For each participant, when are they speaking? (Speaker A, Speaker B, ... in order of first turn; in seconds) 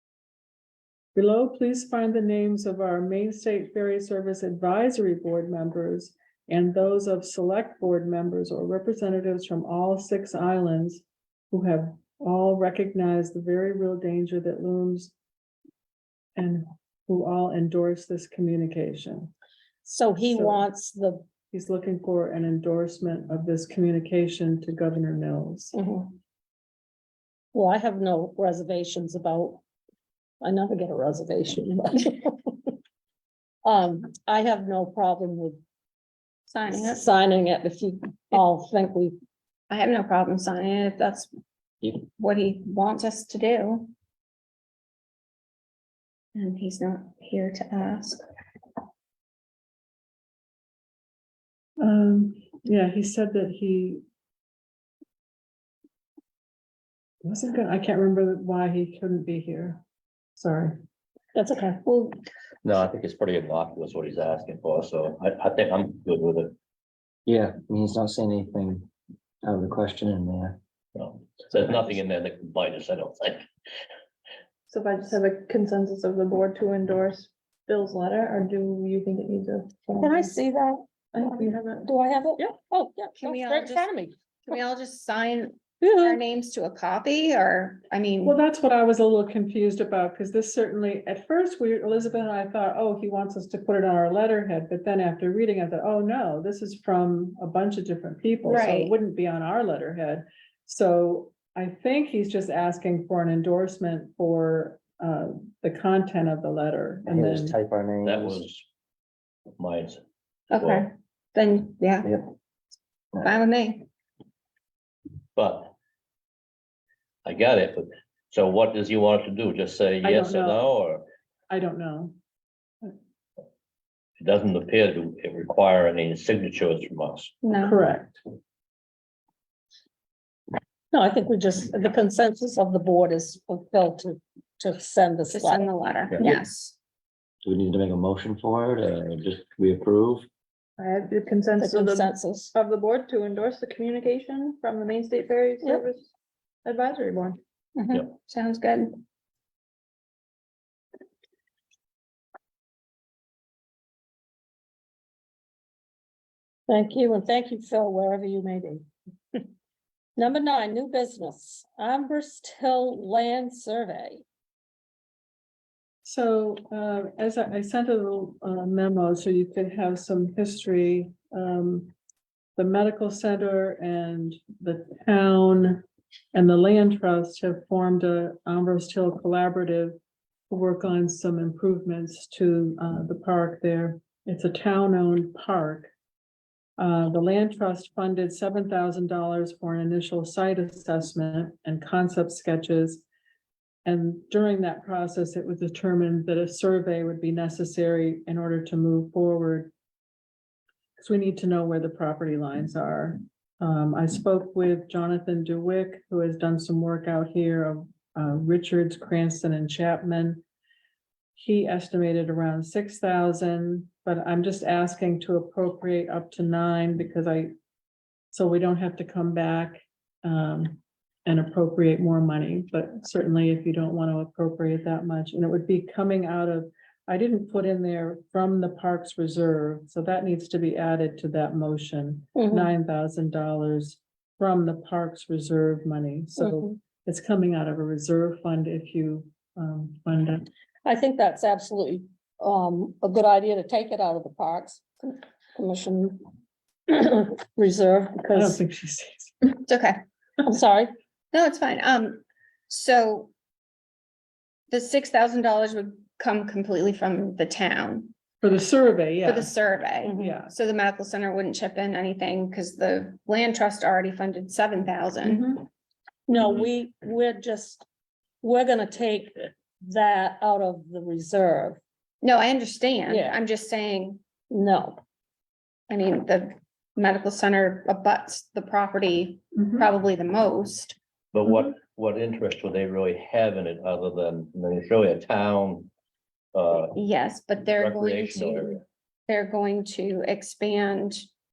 Speaker A: 1.1-15.1, 16.4-19.3, 20.3-20.6, 21.5-25.8, 51.8-54.0, 57.2-59.8, 60.4-60.7, 88.2-107.5, 120.0-120.7, 121.5-122.1, 127.6-128.2, 166.0-171.9, 172.6-180.0, 180.5-185.9, 186.8-193.0, 193.8-199.7, 201.0-210.4, 211.4-217.5, 218.3-240.5, 248.3-249.5, 258.4-259.5, 260.1-260.5, 265.2-265.6, 279.6-279.9
Speaker B: 19.8-21.2, 25.7-26.1, 27.5-29.6, 30.4-32.7, 33.6-35.6, 36.7-39.2, 61.3-61.8, 80.0-80.8, 81.8-84.1, 85.8-86.2, 130.9-135.7, 141.6-142.5, 156.7-159.4, 160.2-164.2, 232.4-232.7, 236.4-236.8, 240.8-246.3, 246.9-248.6, 250.4-250.9, 260.0-260.3, 266.3-267.8, 268.4-271.8, 273.1-273.4, 274.5-275.0
Speaker C: 36.5-37.0, 39.7-41.3, 42.2-43.9, 46.3-48.2, 61.8-62.2, 83.2-83.9, 84.5-88.4, 98.5-98.9, 110.5-112.1, 113.2-113.9, 127.4-127.8, 135.3-136.8, 147.8-149.0, 249.6-250.0, 251.3-253.3, 254.7-258.1, 259.2-265.5, 272.2-274.2, 275.9-281.0, 286.9-291.3
Speaker D: 62.6-66.5, 70.9-73.5, 108.0-108.6, 109.6-110.0, 110.5-110.9, 115.3-115.7, 117.2-121.0, 124.2-127.3, 281.3-285.9, 286.5-287.0, 287.8-288.8
Speaker E: 67.2-68.9, 69.4-70.6, 107.1-108.4, 137.4-140.3
Speaker F: 74.7-80.3, 81.1-81.9, 140.8-146.1, 146.7-147.4